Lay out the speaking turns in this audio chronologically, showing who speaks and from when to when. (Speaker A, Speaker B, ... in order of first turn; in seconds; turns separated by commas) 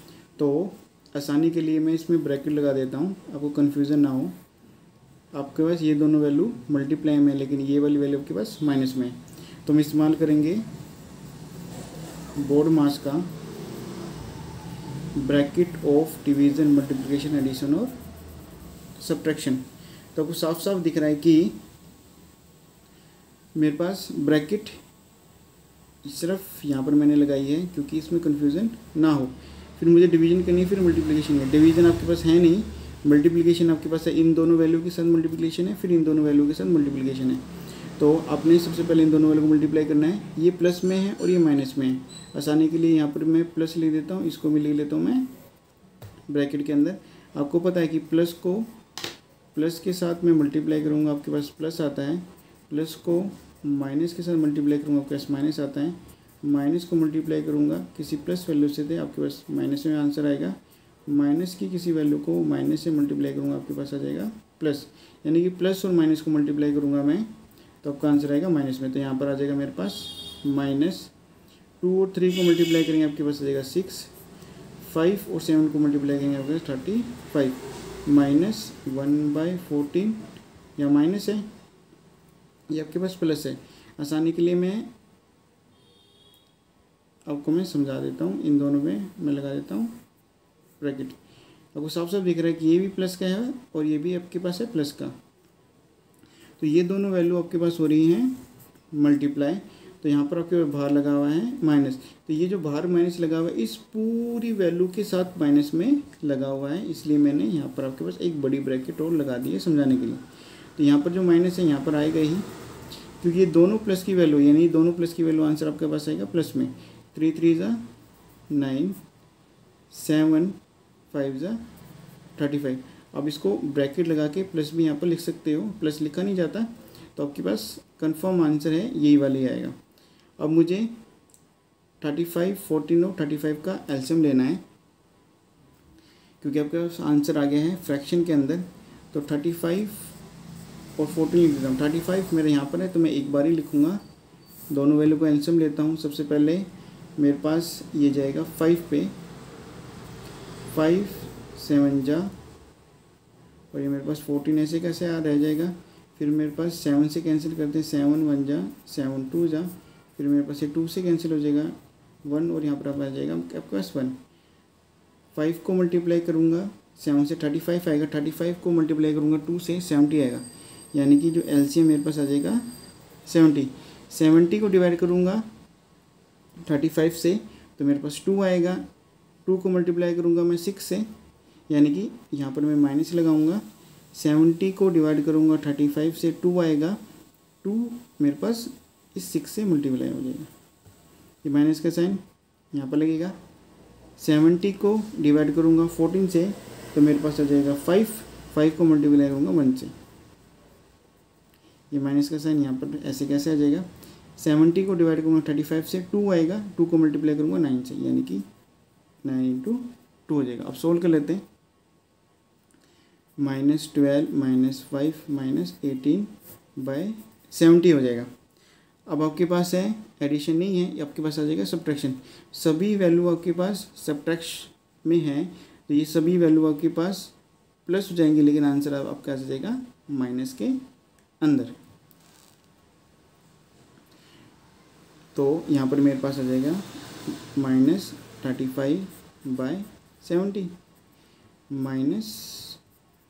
Speaker A: 0.4-4.4, Speaker A: 5.3-10.7, Speaker A: 12.4-13.3, Speaker A: 15.2-17.9, Speaker A: 19.0-21.6, Speaker A: 23.6-24.8, Speaker A: 26.0-37.4, Speaker A: 38.0-45.3, Speaker A: 46.3-48.7, Speaker A: 49.5-67.3, Speaker A: 67.8-71.1, Speaker A: 71.8-74.1, Speaker A: 74.8-81.5, Speaker A: 82.7-84.9, Speaker A: 87.3-90.0, Speaker A: 90.8-91.2, Speaker A: 91.7-95.2, Speaker A: 96.6-98.4, Speaker A: 98.9-110.2, Speaker A: 110.8-112.5, Speaker A: 113.2-117.9, Speaker A: 118.5-119.0, Speaker A: 119.9-120.6, Speaker A: 121.1-121.6, Speaker A: 122.4-129.8, Speaker A: 130.4-130.9, Speaker A: 132.0-134.6, Speaker A: 136.4-140.2, Speaker A: 141.0-144.0, Speaker A: 144.7-149.1, Speaker A: 150.7-152.3, Speaker A: 153.7-164.2, Speaker A: 165.3-172.7, Speaker A: 173.2-175.5, Speaker A: 176.7-178.8, Speaker A: 179.4-181.1, Speaker A: 181.7-187.0, Speaker A: 187.6-190.5, Speaker A: 191.4-193.4, Speaker A: 194.2-199.9, Speaker A: 201.9-208.5, Speaker A: 209.2-211.4, Speaker A: 213.4-218.3, Speaker A: 219.1-227.3, Speaker A: 227.9-230.8, Speaker A: 231.4-231.8, Speaker A: 235.3-240.8, Speaker A: 241.7-242.8